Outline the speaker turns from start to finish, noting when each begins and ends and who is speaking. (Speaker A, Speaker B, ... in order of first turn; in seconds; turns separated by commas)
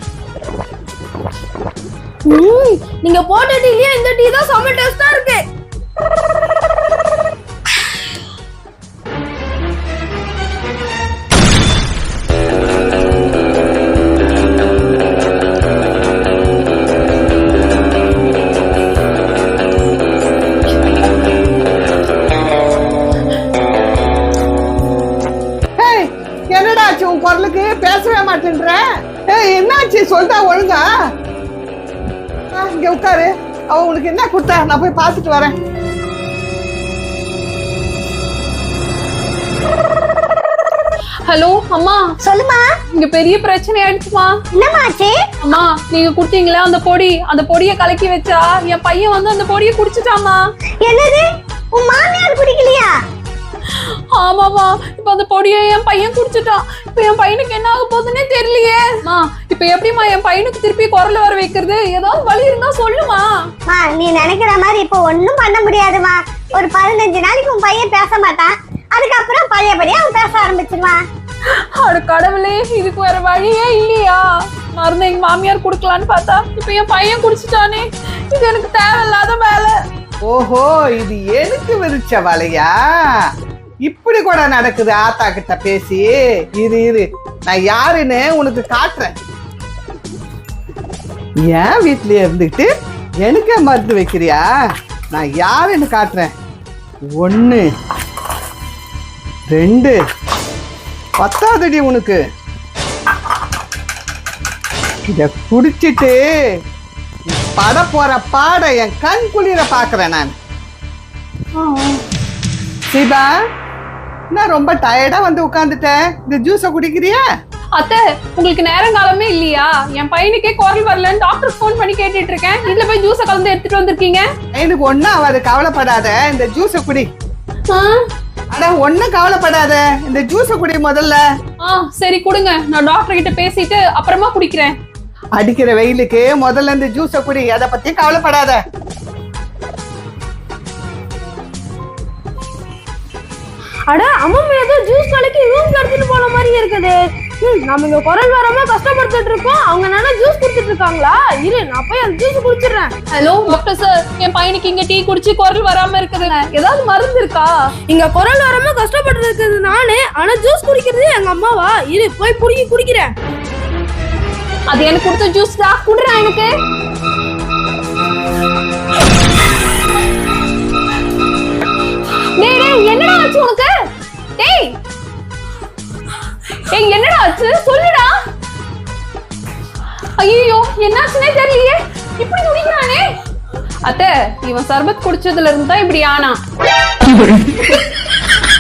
Speaker A: 2.3-5.4, Speaker B: 25.8-30.9, Speaker B: 32.5-35.5, Speaker C: 41.3-42.1, Speaker D: 42.2-42.7, Speaker C: 43.0-44.4, Speaker D: 44.5-45.2, Speaker C: 45.4-50.4, Speaker D: 50.8-53.0, Speaker C: 53.7-63.5, Speaker D: 63.7-71.0, Speaker C: 71.5-79.8, Speaker B: 80.3-83.3, Speaker B: 83.8-89.2, Speaker B: 91.5-94.5, Speaker B: 95.1-96.3, Speaker B: 97.1-97.7, Speaker B: 99.5-100.0, Speaker B: 101.2-102.2, Speaker B: 105.1-106.6, Speaker B: 107.3-110.3, Speaker C: 111.6-112.0, Speaker B: 112.9-113.3, Speaker B: 114.3-117.2, Speaker C: 117.8-124.3, Speaker B: 124.5-127.1, Speaker C: 127.7-128.1, Speaker B: 128.5-131.2, Speaker C: 131.6-134.8, Speaker B: 135.3-138.6, Speaker A: 143.9-152.9, Speaker C: 153.1-157.5, Speaker A: 157.9-163.1, Speaker C: 164.7-166.5, Speaker C: 172.4-173.7, Speaker C: 174.4-174.8, Speaker C: 176.7-178.1, Speaker C: 180.2-183.1, Speaker C: 183.8-186.4